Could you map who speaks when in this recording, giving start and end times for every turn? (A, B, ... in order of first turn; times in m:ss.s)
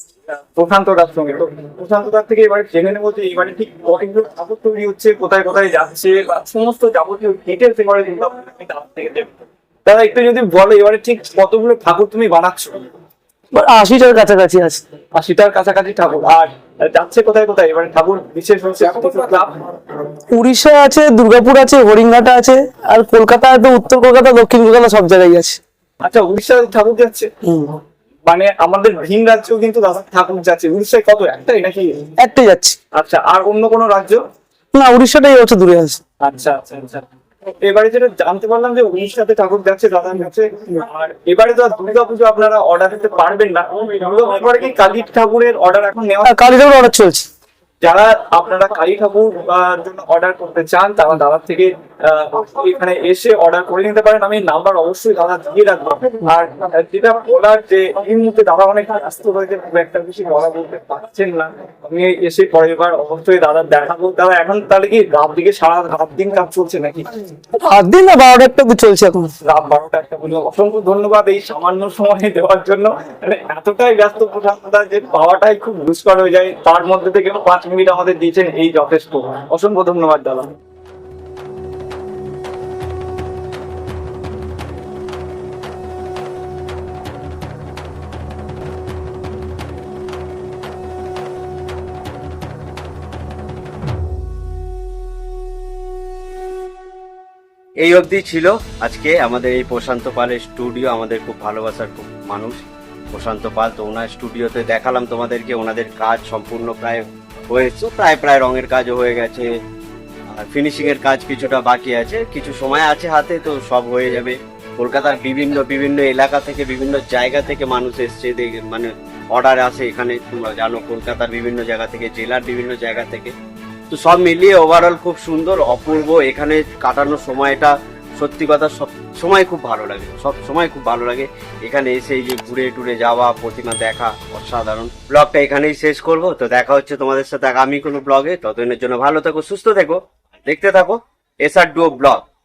0:00.3-0:12.8 A
0:13.5-0:14.8 B
0:15.1-0:19.7 A
0:20.3-0:25.6 B
0:26.0-0:27.3 A
0:27.5-0:27.8 B
0:28.3-0:32.1 A
0:32.2-0:32.8 B
0:32.9-0:34.2 A
0:34.7-0:36.0 B
0:36.2-0:37.0 A
0:37.6-0:46.4 A
0:46.2-0:47.3 B
0:47.8-1:07.2 A
1:07.6-1:09.3 B
1:09.4-1:20.5 A
1:37.8-1:49.5 C
1:50.3-2:03.3 C
2:03.9-2:22.2 C